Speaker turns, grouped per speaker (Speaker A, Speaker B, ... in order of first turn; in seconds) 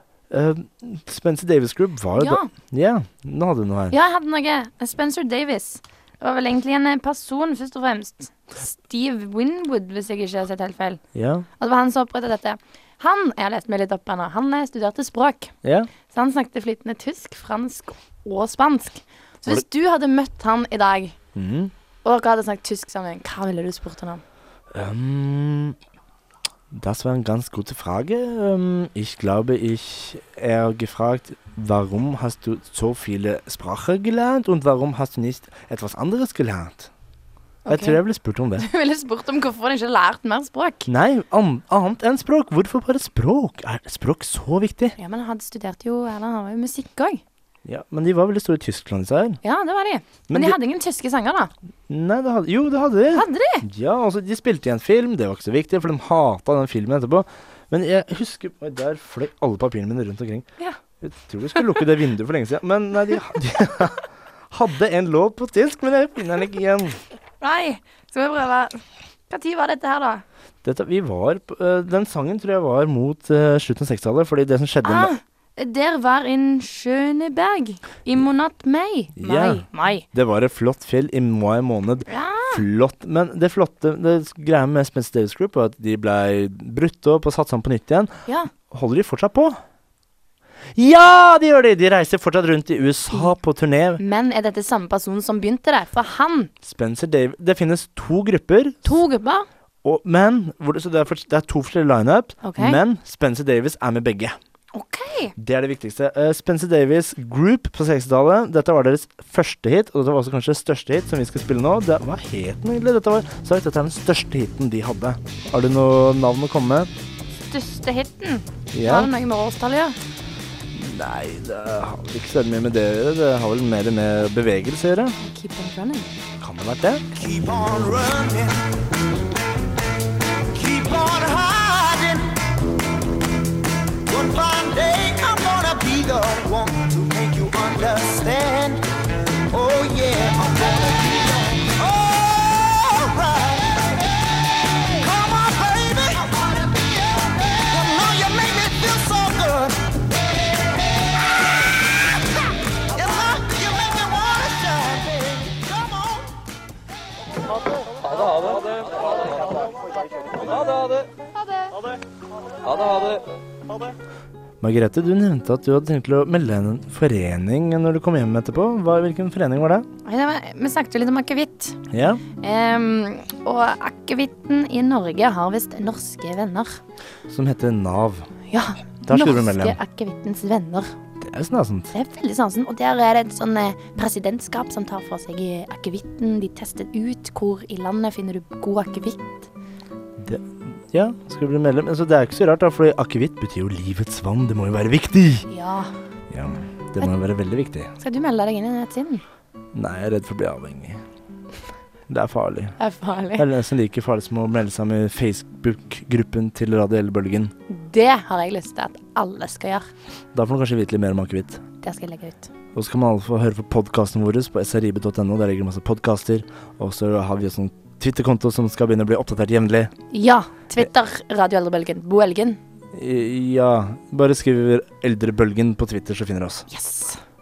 Speaker A: 0.3-4.0, 11.1-11.4, 15.6-15.9, 21.3-21.7, 24.7-25.8, 26.7-36.9, 37.7-38.6, 40.9-45.0, 47.6-49.4, 50.3-50.6, 51.9-60.5, 61.0-67.0, 70.6-75.1, 79.2-88.1, 88.7-89.5, 90.8-94.0, 96.6-99.0, 99.8-104.3, 105.4-116.9, 118.7-119.1, 120.7-125.2, 126.4-127.1, 164.6-169.8, 171.9-172.2, 177.3-178.3, 179.1-179.8, 181.2-181.9, 190.2-195.5, 196.3-197.9, 199.7-201.0, 202.1-202.8, 203.3-207.5, 210.3-211.6, 212.7-219.9, 222.9-226.7
Speaker B: 2.2-2.5, 3.9-11.0, 11.6-15.5, 16.1-21.1, 22.0-24.2, 37.6-38.0, 38.6-40.9, 45.0-47.2, 49.4-51.5, 53.1-53.6, 67.4-70.2, 74.8-80.0, 82.1-82.6, 94.0-96.5, 98.8-99.5, 102.4-102.8, 104.7-105.3, 117.5-120.0, 125.2-126.1, 170.0-171.8, 172.4-176.8, 178.5-180.9, 181.9-189.5, 195.5-195.9, 198.0-199.2, 202.8-203.4, 207.7-209.9, 211.8-212.5, 220.1-222.6, 226.7-227.2
Speaker C: 127.4-128.6, 130.5-132.5, 134.0-138.9, 139.4-144.0, 144.7-149.9, 152.9-156.2